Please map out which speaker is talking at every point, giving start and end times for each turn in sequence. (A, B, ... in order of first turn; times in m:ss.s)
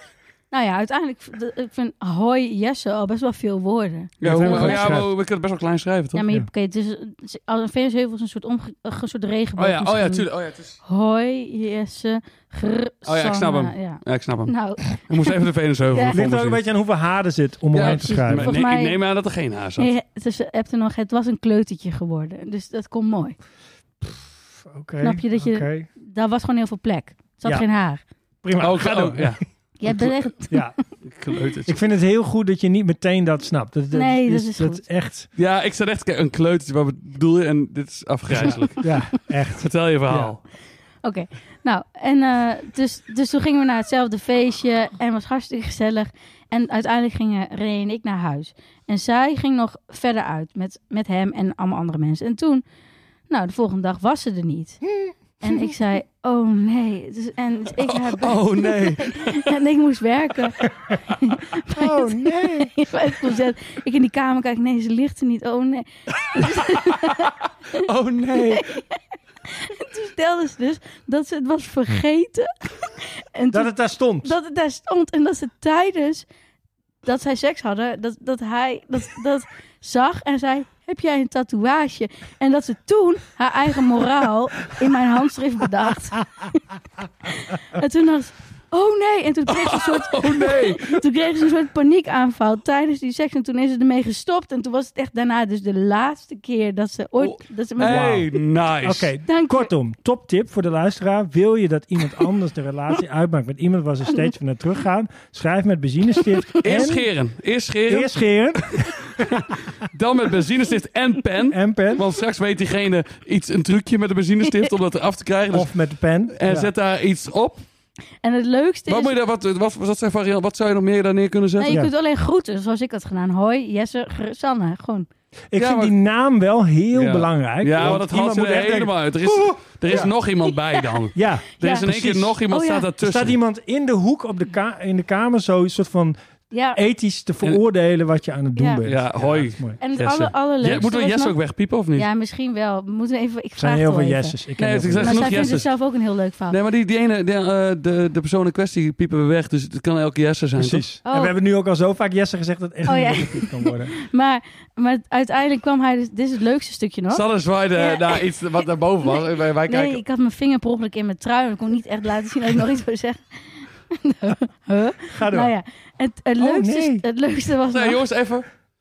0:00.5-0:05.1 A
0:04.2-0:06.2 B
0:04.2-0:05.1 C
0:06.1-0:10.3 A
0:09.6-0:10.8 B
0:10.8-0:15.0 A
0:13.0-0:16.6 B
0:15.9-0:16.2 A
0:16.1-0:18.6 C
0:17.7-0:19.9 B
0:17.8-0:19.0 A
0:19.8-0:23.4 A
0:24.1-0:25.9 C
0:25.0-0:28.0 A
0:28.4-0:29.4 C
0:28.6-0:30.2 B
0:29.8-0:30.8 A
0:30.5-0:30.8 C
0:31.0-0:31.8 B
0:31.7-0:35.3 C
0:33.9-0:34.8 A
0:35.4-0:38.8 B
0:38.3-0:40.4 C
0:38.4-0:39.0 A
0:39.6-0:40.4 B
0:41.0-0:52.6 A
0:53.3-0:54.9 A
0:55.0-0:55.6 C
0:55.4-1:07.4 A
0:57.9-0:59.4 B
1:01.8-1:02.7 C
1:06.4-1:07.1 B
1:07.8-1:08.6 B
1:08.3-1:16.3 A
1:13.5-1:14.3 C
1:17.0-1:26.7 A
1:27.2-1:38.2 A
1:29.5-1:31.0 B
1:37.2-1:39.1 B
1:37.8-1:47.1 C
1:39.3-1:39.7 A
1:44.1-1:44.3 A
1:46.6-1:57.6 B
1:47.9-1:48.9 C
1:51.5-1:52.0 C
1:55.5-1:56.7 C
1:58.2-1:59.1 A
1:58.9-2:01.8 B
2:01.6-2:05.1 A
2:05.5-2:10.1 C
2:05.6-2:05.9 B
2:06.9-2:13.4 B
2:11.2-2:12.4 C
2:12.5-2:12.9 A
2:13.0-2:16.2 C
2:16.5-2:16.8 A
2:16.7-2:19.8 C
2:18.6-2:18.8 A
2:18.8-2:22.1 B
2:19.8-2:21.4 A
2:22.0-2:24.4 A
2:23.6-2:25.7 C
2:24.6-2:25.7 B
2:25.0-2:26.6 A
2:26.5-2:30.8 B
2:30.6-2:34.0 C
2:31.1-2:31.4 A
2:32.9-2:37.2 A
2:37.1-2:40.0 B
2:37.8-2:48.0 A
2:45.1-2:45.5 C
2:46.4-2:47.0 C
2:47.7-2:48.5 B